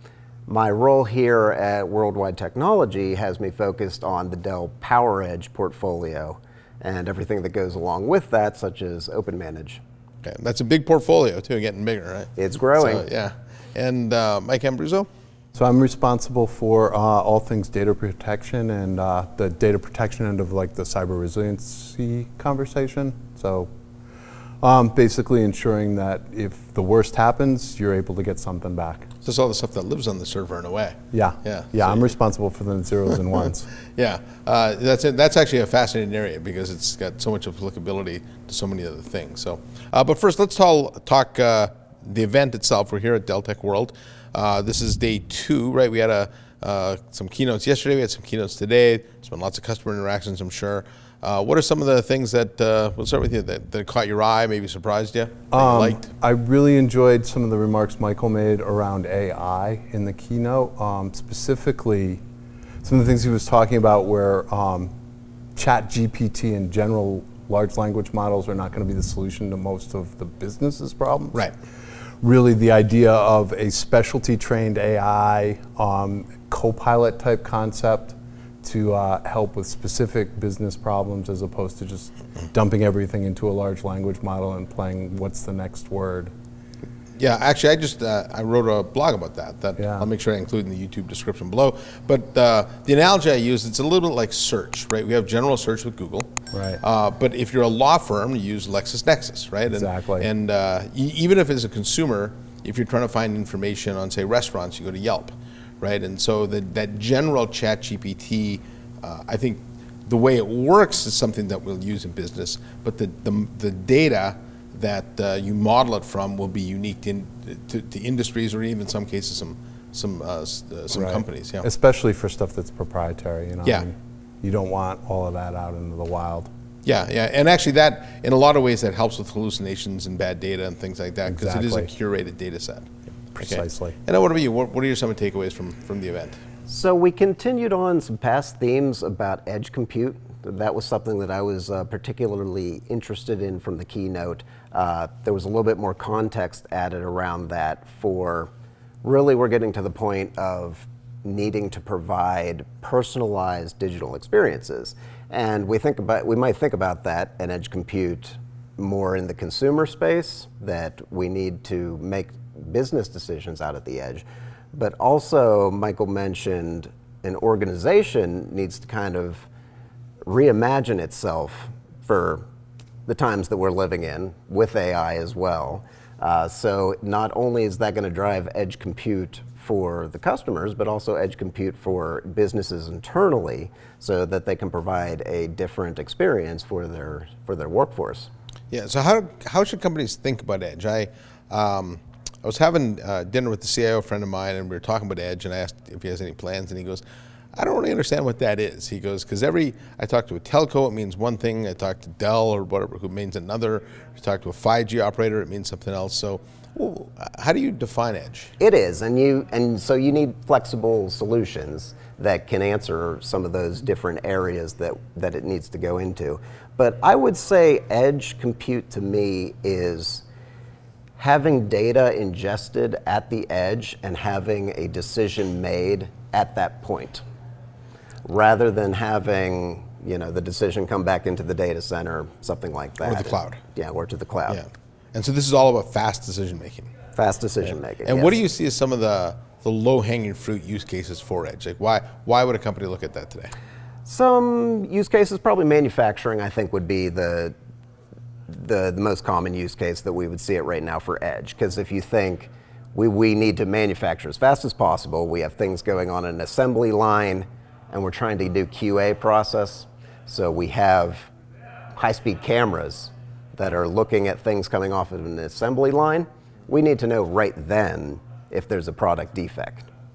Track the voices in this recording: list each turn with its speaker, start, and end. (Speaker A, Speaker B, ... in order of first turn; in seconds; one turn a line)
Speaker A: 0.5-9.8
Speaker B: 10.2-15.1
Speaker A: 12.4-13.0
Speaker C: 15.5-23.7
Speaker C: 24.6-29.1
Speaker B: 29.2-32.0
Speaker C: 31.1-33.7
Speaker B: 34.0-56.0
Speaker C: 55.5-62.2
Speaker C: 62.8-64.9
Speaker C: 65.5-71.4
Speaker C: 72.2-86.3
Speaker B: 87.2-96.3
Speaker C: 89.8-90.1
Speaker C: 96.5-96.8
Speaker B: 96.8-121.6
Speaker C: 99.7-100.3
Speaker C: 120.9-126.5
Speaker B: 126.8-136.4
Speaker C: 131.3-131.9
Speaker C: 133.3-134.0
Speaker A: 136.7-148.5
Speaker A: 149.0-169.5
Speaker A: 170.2-172.4
Speaker A: 173.1-188.3
Speaker B: 188.7-197.0
Speaker B: 197.6-208.5
Speaker A: 208.6-220.2
Speaker A: 221.2-227.2
Speaker A: 228.2-234.6
Speaker B: 233.0-233.6
Speaker B: 234.5-236.9
Speaker A: 237.1-238.3
Speaker B: 238.0-243.5
Speaker A: 244.0-247.5
Speaker A: 248.5-261.3
Speaker A: 262.0-269.9